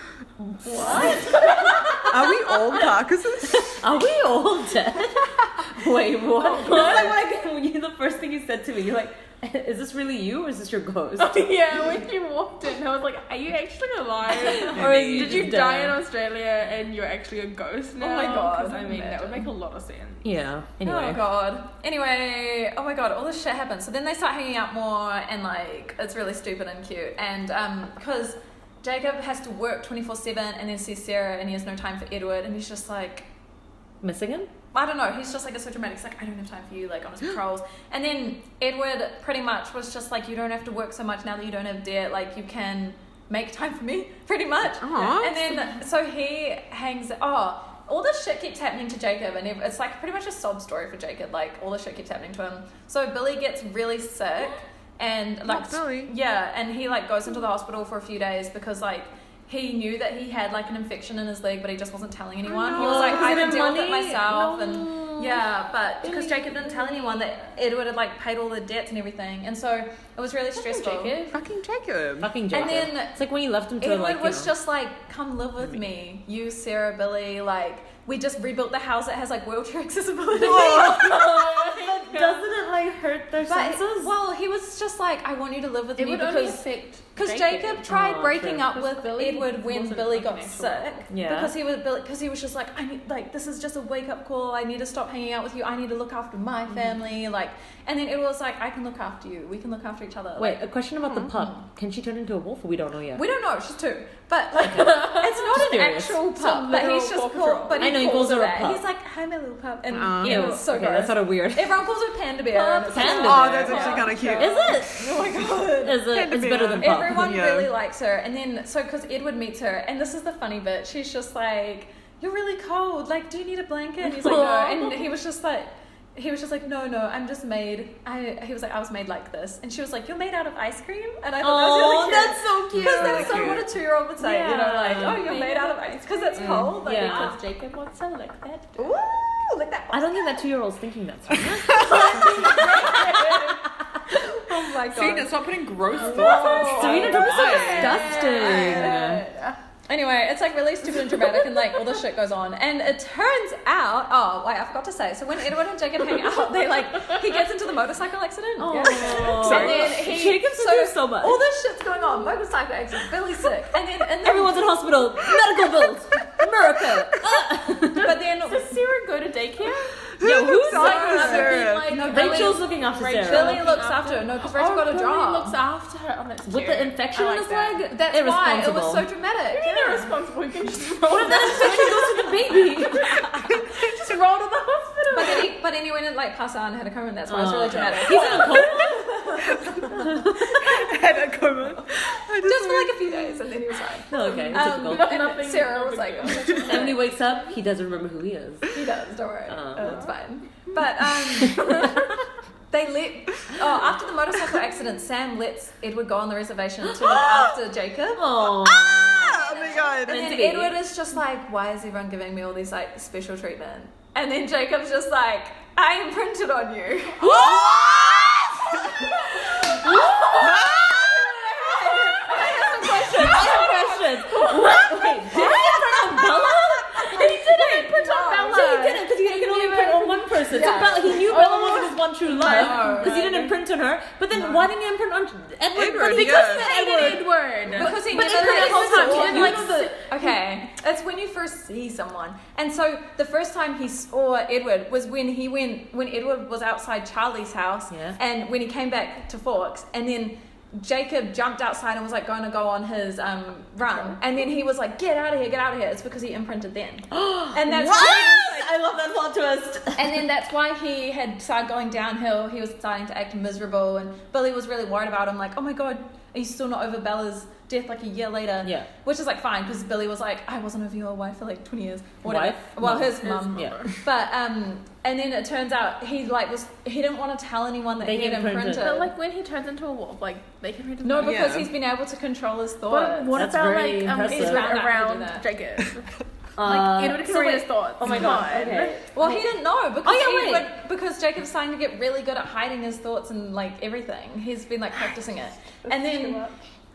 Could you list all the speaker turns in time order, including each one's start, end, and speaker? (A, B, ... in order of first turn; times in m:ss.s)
0:00.4-0:01.9 A
0:00.6-0:02.0 B
0:02.0-0:03.8 C
0:03.5-0:11.9 A
0:06.4-0:07.3 B
0:11.2-0:20.3 B
0:14.5-0:16.0 A
0:14.7-0:15.6 C
0:18.0-0:19.5 D
0:20.2-0:21.2 A
0:20.8-0:33.2 D
0:34.0-0:34.5 A
0:34.7-1:11.3 D
0:44.8-0:45.6 C
0:55.4-0:56.1 C
1:02.5-1:03.2 C
1:02.7-1:05.4 A
1:06.0-1:07.3 B
1:10.6-1:11.3 B
1:11.3-1:12.3 C
1:12.2-1:14.5 A
1:12.5-1:13.2 D
1:13.8-1:21.4 D
1:20.4-1:24.1 A
1:20.4-1:21.1 C
1:20.8-1:22.5 B
1:23.4-1:26.6 D
1:26.0-1:27.9 B
1:27.1-1:40.6 D
1:27.9-1:28.7 A
1:28.7-1:31.1 B
1:31.1-1:31.5 A
1:40.4-1:43.2 A
1:41.2-1:41.6 D
1:43.1-1:56.1 D
1:44.6-1:46.2 A
1:44.7-1:45.4 B
1:46.3-1:48.0 B
1:47.8-1:48.8 A
1:49.9-1:50.5 C
1:50.2-1:51.8 A
1:52.5-1:55.2 A
1:52.8-1:54.8 B
1:53.2-1:54.7 C
1:55.8-1:57.4 A
1:56.0-1:57.7 C
1:56.8-2:17.4 D
2:04.2-2:05.0 B
2:04.2-2:04.5 A
2:11.4-2:13.4 A
2:11.7-2:13.5 B
2:12.7-2:13.7 C
2:14.2-2:15.3 A
2:14.5-2:18.9 B
2:16.4-2:16.7 C
2:16.6-2:17.3 A
2:18.8-2:20.4 D
2:19.9-2:22.9 A
2:21.7-2:23.7 B
2:22.5-2:23.1 D
2:24.4-2:25.3 D
2:24.5-2:25.2 B
2:24.9-2:28.2 C
2:25.9-2:29.6 B
2:26.2-2:29.2 A
2:26.2-2:29.1 D
2:29.9-2:44.7 D
2:31.0-2:31.4 B
2:38.6-2:41.4 A
2:38.7-2:40.4 B
2:39.3-2:39.7 C
2:44.2-2:48.2 A
2:47.9-2:48.8 D
2:48.4-2:50.1 B
2:50.2-2:51.9 C
2:50.2-2:51.0 A
2:50.6-2:57.8 B
2:50.7-2:55.6 D
2:52.1-2:53.6 A
2:56.4-2:59.1 A
2:57.9-3:00.1 D
2:59.5-3:05.5 B
3:01.1-3:03.3 A
3:03.4-3:04.2 C
3:05.1-3:10.0 D
3:07.3-3:09.0 A
3:08.0-3:09.0 B
3:09.5-3:09.8 C
3:10.0-3:10.5 A
3:10.5-3:13.3 C
3:12.4-3:17.0 D
3:14.1-3:15.1 A
3:14.2-3:17.3 B
3:16.6-3:18.7 A
3:18.7-3:22.1 D
3:19.5-3:20.0 A
3:19.8-3:20.1 B
3:21.3-3:22.0 A
3:22.7-3:37.5 D
3:28.1-3:30.8 A
3:28.6-3:30.3 C
3:37.2-3:39.0 C
3:38.8-3:43.9 D
3:39.8-3:40.7 B
3:40.3-3:41.3 C
3:42.3-3:45.8 B
3:42.8-3:59.9 A
3:45.3-3:46.6 D
3:47.0-3:53.4 B
3:47.9-3:51.4 D
3:52.2-3:53.5 D
3:55.7-3:56.7 C
3:56.0-4:00.4 B
3:57.7-4:18.7 D
4:17.1-4:20.2 A
4:17.8-4:18.3 C
4:19.9-4:39.1 D
4:32.2-4:33.9 A
4:33.2-4:33.9 B
4:38.0-4:39.0 A
4:38.8-4:41.6 B
4:41.0-4:43.5 D
4:41.2-4:41.7 C
4:42.9-4:49.0 B
4:43.3-4:44.8 A
4:44.2-4:45.4 D
4:46.6-4:49.4 A
4:46.7-4:48.4 D
4:49.1-4:56.4 D
4:50.0-4:50.7 A
4:55.9-4:56.6 B